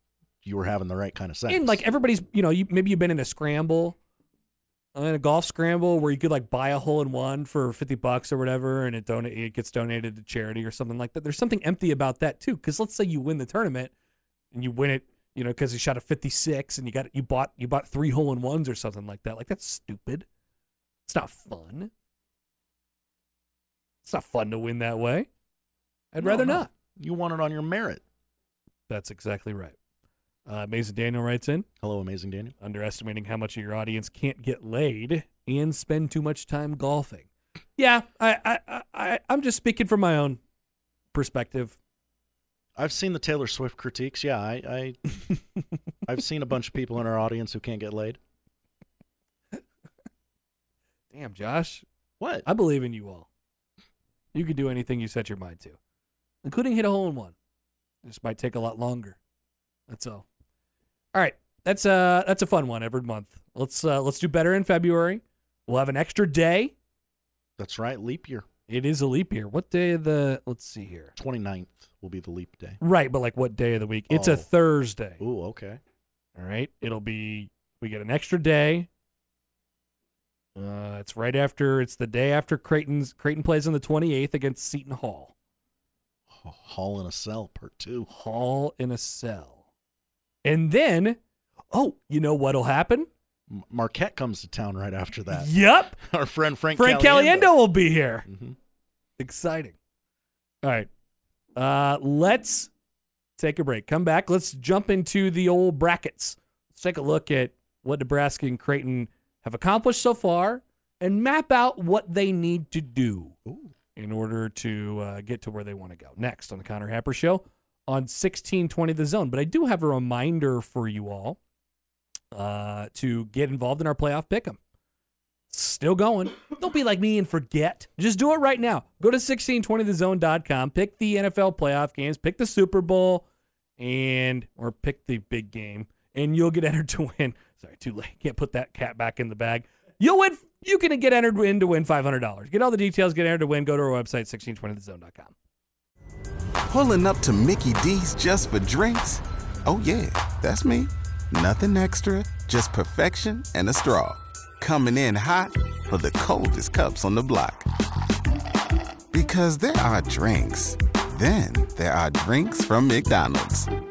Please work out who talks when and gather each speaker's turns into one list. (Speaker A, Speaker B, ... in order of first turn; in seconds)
Speaker A: 0.4-1.8, 26.2-28.0, 31.8-32.5, 42.8-45.3, 46.1-48.2, 52.2-52.5, 67.6-68.5, 71.2-72.8, 74.1-74.5, 75.2-75.8, 86.3-88.1, 93.5-97.6, 98.3-98.6, 113.5-113.7
Speaker B: 1.5-4.0, 5.0-13.9, 14.5-20.3, 21.1-21.9, 24.1-25.3, 26.1-26.7, 28.9-29.8, 30.5-31.7, 32.6-40.4, 41.1-41.8, 51.1-51.9, 52.5-53.3, 54.3-55.8, 56.4-57.3, 58.0-59.2, 59.9-60.2, 61.1-66.7, 68.7-71.1, 72.8-75.2, 76.4-78.9, 80.6-85.3, 88.1-89.6, 90.4-91.2, 91.7-93.1, 95.3-96.0, 96.7-98.3, 99.2-99.8, 100.6-100.9, 101.6-102.7, 103.4-113.4, 114.0-121.4, 122.3-124.6, 125.5-133.3, 133.8-145.3
Speaker C: 146.7-157.7, 159.1-163.7